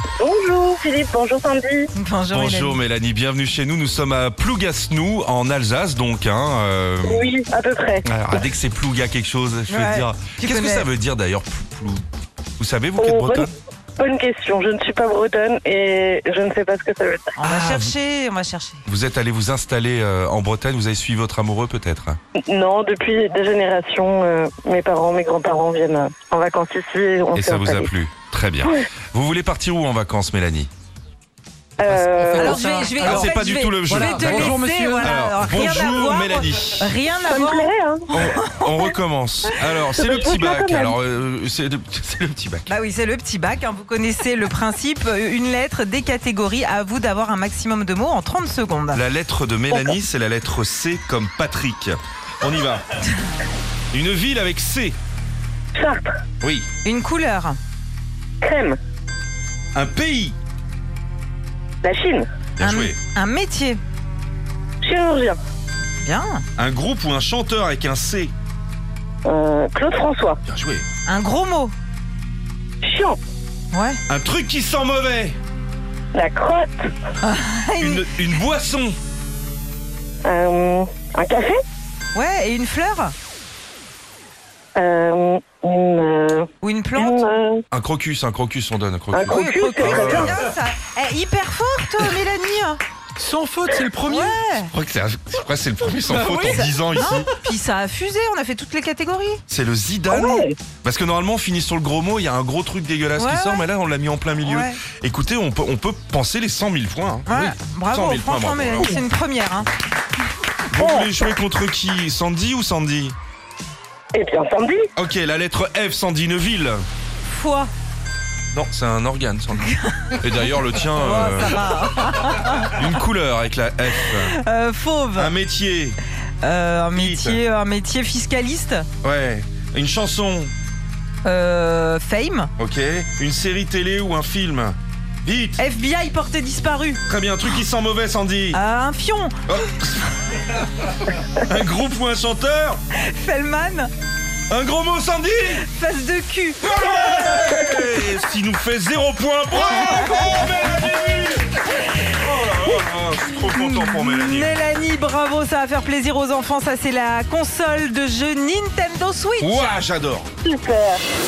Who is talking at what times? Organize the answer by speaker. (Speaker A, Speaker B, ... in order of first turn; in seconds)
Speaker A: 0.2-1.9, 7.0-8.0, 13.0-17.3, 22.4-27.9, 31.8-33.1, 37.3-38.1, 39.8-41.0, 49.7-50.0, 55.7-56.1, 58.4-58.8, 61.8-62.3, 64.8-65.4, 69.2-70.4, 72.8-73.2, 76.1-76.9, 80.2-81.6, 84.8-87.6, 89.1-90.4, 100.1-100.5, 110.8-111.1, 114.1-114.9, 160.4-161.0
Speaker B: 1.9-2.8, 9.7-10.9, 17.4-18.8, 32.3-38.7, 42.7-49.0, 56.8-57.6, 62.6-63.8, 66.0-66.4, 71.0-71.7, 73.7-74.0, 77.2-78.2, 82.1-83.1, 86.6-87.2, 89.2-92.8, 94.0-94.7, 96.1-99.4, 103.2-103.7, 104.4-104.8, 107.3-109.7, 117.2-117.7, 119.6-120.1, 120.8-122.8, 124.0-125.3, 126.4-128.8, 131.2-132.5, 135.6-137.0, 138.5-139.4, 142.9-143.9, 145.6-147.5, 149.5-150.6, 153.5-159.7
Speaker C: 2.3-7.3, 8.0-12.0, 12.6-13.5, 17.4-17.9, 18.9-22.2, 27.3-30.7, 33.0-36.9, 38.1-42.7, 48.9-52.9, 53.9-55.0, 56.4-56.7, 59.7-60.3, 62.6-63.0, 66.6-68.3, 70.5-70.8, 74.1-75.4, 77.8-79.0, 87.7-90.3, 94.7-97.3, 99.5-109.0, 110.7-113.1, 115.0-116.8, 118.5-121.6, 122.7-124.3, 125.2-126.0, 126.9-127.4, 129.0-130.5, 132.6-135.6, 137.1-138.6, 139.5-140.1, 140.6-142.8, 144.5-145.6, 146.6-151.4, 152.0-154.6, 159.4-160.3
Speaker D: 31.9-33.3, 33.8-35.1, 93.2-94.4